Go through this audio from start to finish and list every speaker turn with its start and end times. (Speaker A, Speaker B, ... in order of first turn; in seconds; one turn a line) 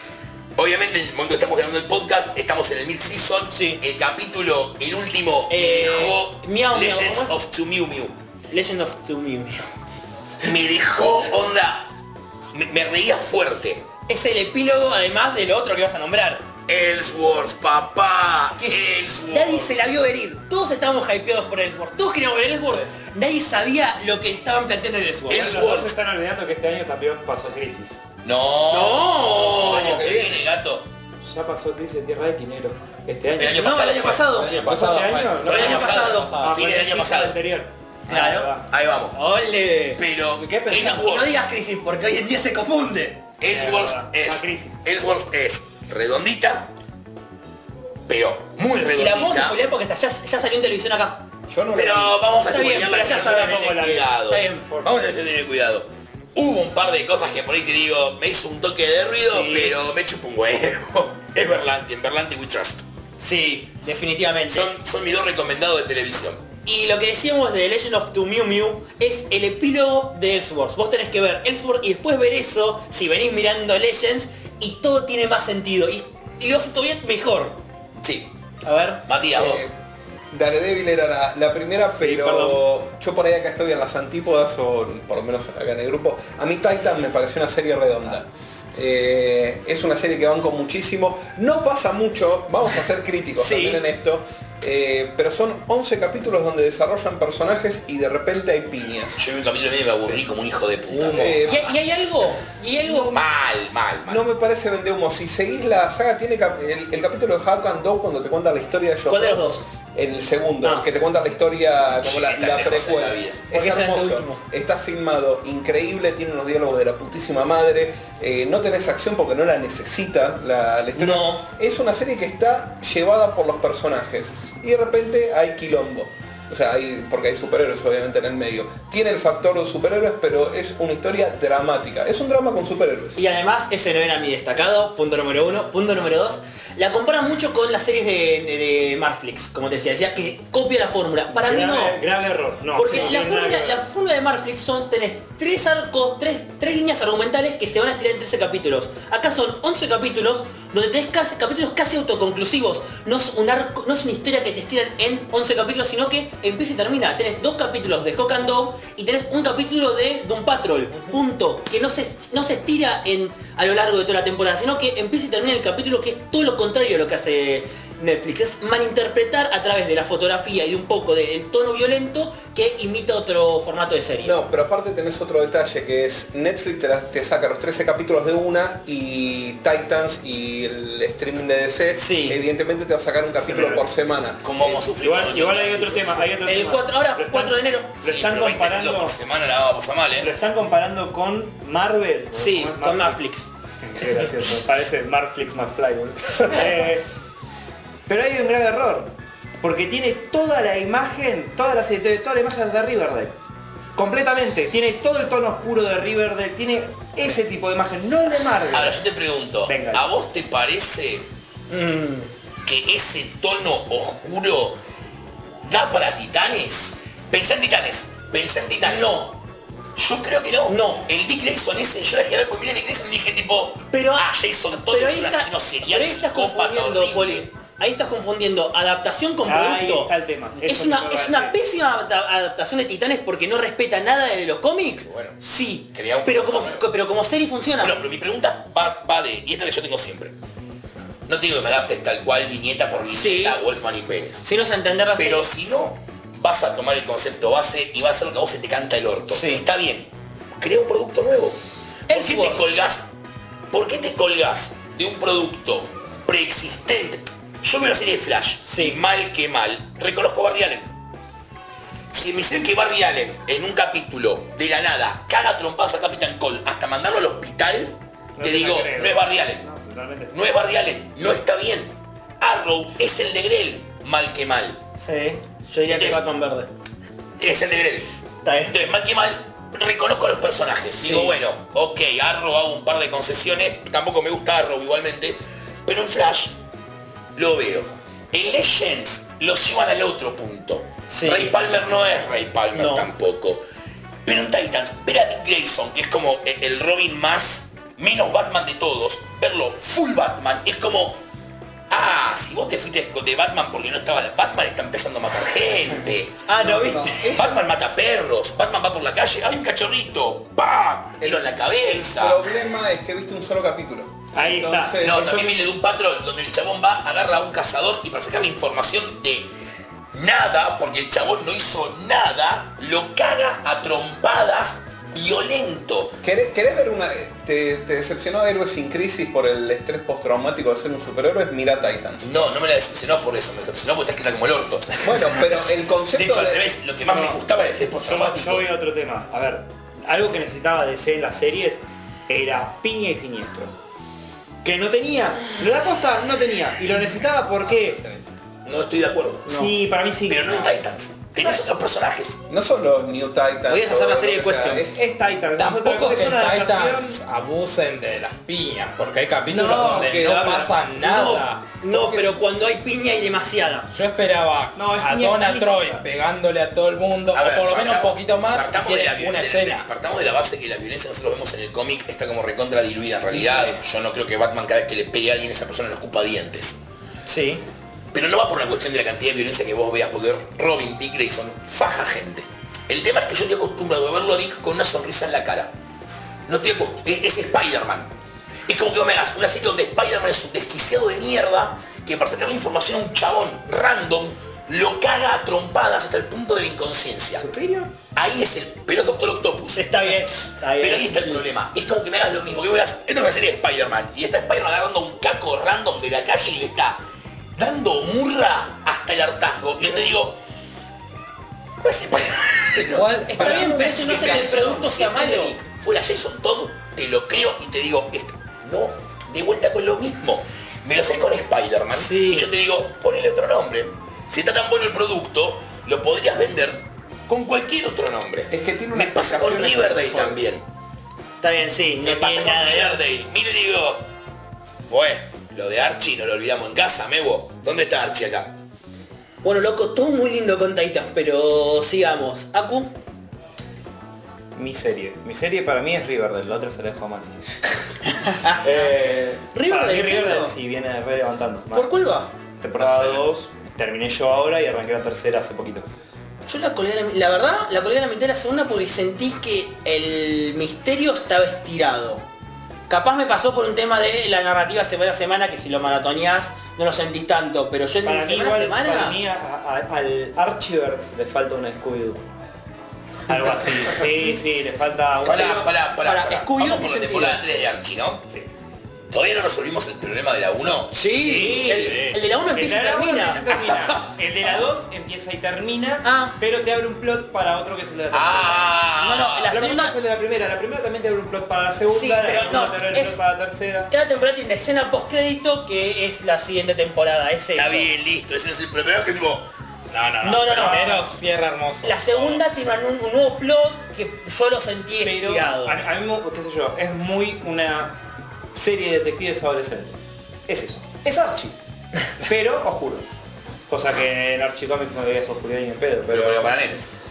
Speaker A: 0.6-8.1
Speaker B: 3.5-3.8
Speaker B: 5.5-7.4
Speaker B: 8.5-9.6
Speaker A: 10.4-11.9
Speaker A: 12.5-13.8
Speaker B: 14.1-16.5
Speaker A: 16.7-19.8
Speaker B: 18.6-25.5
Speaker A: 25.3-25.9
Speaker C: 25.3-28.0
Speaker A: 28.2-30.9
Speaker B: 28.7-30.4
Speaker C: 31.2-33.8
Speaker A: 33.3-37.4
Speaker B: 33.5-34.6
Speaker D: 34.4-36.5
Speaker C: 34.6-38.7
Speaker B: 35.4-36.3
Speaker B: 38.1-38.6
Speaker A: 38.7-39.1
Speaker B: 39.1-40.0
Speaker A: 40.0-41.3
Speaker C: 40.4-41.1
Speaker B: 40.7-43.2
Speaker C: 43.4-44.8
Speaker A: 43.4-46.7
Speaker A: 48.1-49.6
Speaker B: 49.0-51.2
Speaker E: 51.5-52.2
Speaker A: 51.7-62.8
Speaker B: 52.4-54.9
Speaker C: 52.9-54.1
Speaker B: 59.3-59.8
Speaker B: 63.2-64.7
Speaker A: 64.5-66.4
Speaker B: 66.6-77.6
Speaker A: 78.0-78.3
Speaker B: 78.6-79.0
Speaker A: 79.1-79.7
Speaker E: 79.3-79.7
Speaker E: 80.3-99.2
Speaker B: 81.9-82.6
Speaker B: 93.4-93.8
Speaker A: 99.2-101.5
Speaker D: 100.9-101.6
Speaker E: 101.1-101.7
Speaker B: 101.5-103.2
Speaker A: 103.1-104.2
Speaker E: 104.1-133.2
Speaker B: 109.1-109.6
Speaker A: 112.0-113.4
Speaker B: 113.5-114.4
Speaker B: 121.0-121.5
Speaker B: 133.2-142.0
Speaker C: 141.3-143.8
Speaker B: 142.7-174.3
Speaker E: 174.2-184.5
Speaker B: 182.0-182.4
Speaker C: 183.4-183.9
Speaker A: 184.4-186.3
Speaker C: 184.9-189.2
Speaker B: 186.4-187.9
Speaker A: 188.0-190.3
Speaker C: 190.2-193.2
Speaker B: 192.3-193.5
Speaker C: 193.8-197.1
Speaker C: 198.1-203.3
Speaker C: 203.9-209.0
Speaker A: 208.7-211.3
Speaker C: 209.7-210.0
Speaker B: 211.7-212.3
Speaker A: 212.6-214.8
Speaker A: 215.6-219.3
Speaker B: 218.8-219.3
Speaker A: 219.9-227.4
Speaker B: 220.7-221.1
Speaker B: 223.9-238.0
Speaker C: 229.4-231.5
Speaker A: 235.0-235.4
Speaker A: 235.9-236.8
Speaker A: 237.8-240.3
Speaker A: 241.3-244.4
Speaker B: 243.1-243.6
Speaker B: 244.4-245.5
Speaker A: 245.2-253.1
Speaker B: 249.3-249.6
Speaker B: 252.1-252.7
Speaker A: 253.7-260.9
Speaker B: 258.6-259.0
Speaker A: 262.1-269.6
Speaker C: 268.4-270.3
Speaker A: 270.3-274.8
Speaker B: 275.0-276.7
Speaker A: 275.9-276.2
Speaker A: 277.4-278.1
Speaker B: 278.4-278.8
Speaker A: 278.6-286.6
Speaker B: 280.9-281.4
Speaker A: 287.3-293.6
Speaker B: 291.1-291.5
Speaker B: 292.7-293.1
Speaker A: 294.2-301.2
Speaker A: 301.9-306.4
Speaker B: 306.4-307.4
Speaker E: 306.6-307.6
Speaker A: 307.3-312.4
Speaker E: 311.2-315.6
Speaker C: 314.3-315.6
Speaker A: 315.0-319.5
Speaker A: 320.1-326.1
Speaker E: 326.2-332.3
Speaker A: 332.2-335.4
Speaker E: 335.0-336.8
Speaker A: 336.1-338.7
Speaker C: 337.1-337.4
Speaker C: 338.0-343.7
Speaker C: 344.6-348.0
Speaker D: 347.6-348.3
Speaker A: 348.6-349.7
Speaker C: 349.4-350.8
Speaker A: 350.2-352.4
Speaker E: 352.5-355.0
Speaker B: 353.7-354.9
Speaker C: 354.9-357.2
Speaker D: 355.6-361.7
Speaker C: 359.5-360.8
Speaker B: 361.0-363.9
Speaker D: 363.9-369.9
Speaker C: 364.7-366.0
Speaker A: 367.3-376.8
Speaker B: 377.2-377.6
Speaker A: 378.1-385.7
Speaker A: 386.5-388.1
Speaker A: 388.7-397.4
Speaker B: 397.4-397.8
Speaker C: 397.5-397.8
Speaker A: 398.1-399.9
Speaker B: 399.7-401.4
Speaker A: 400.8-407.0
Speaker A: 407.6-410.4
Speaker A: 411.8-430.6
Speaker D: 412.8-414.4
Speaker B: 413.3-415.6
Speaker B: 421.9-422.5
Speaker E: 428.5-430.4
Speaker B: 431.4-433.0
Speaker A: 432.0-434.1
Speaker A: 434.9-438.5
Speaker B: 439.4-442.9
Speaker C: 444.5-447.4
Speaker B: 448.3-448.9
Speaker C: 448.6-451.9
Speaker B: 449.5-450.5
Speaker B: 451.7-452.3
Speaker C: 452.6-455.9
Speaker D: 452.8-453.2
Speaker B: 456.5-462.2
Speaker B: 462.9-469.2
Speaker C: 468.0-472.3
Speaker C: 473.3-475.7
Speaker A: 475.2-478.2
Speaker B: 475.3-477.4
Speaker A: 479.1-480.9
Speaker B: 480.9-483.6
Speaker C: 481.1-488.8
Speaker D: 481.8-482.2
Speaker A: 483.7-484.0
Speaker B: 486.0-486.4
Speaker A: 488.1-489.5
Speaker B: 489.0-489.9
Speaker C: 489.5-493.9
Speaker B: 491.9-493.2
Speaker B: 493.9-497.9
Speaker A: 497.5-499.5
Speaker D: 499.9-502.4
Speaker B: 500.2-501.1
Speaker C: 500.5-500.8
Speaker B: 501.8-505.8
Speaker C: 505.0-508.0
Speaker C: 508.5-511.6
Speaker C: 512.2-513.1
Speaker C: 513.7-516.6
Speaker A: 516.1-516.9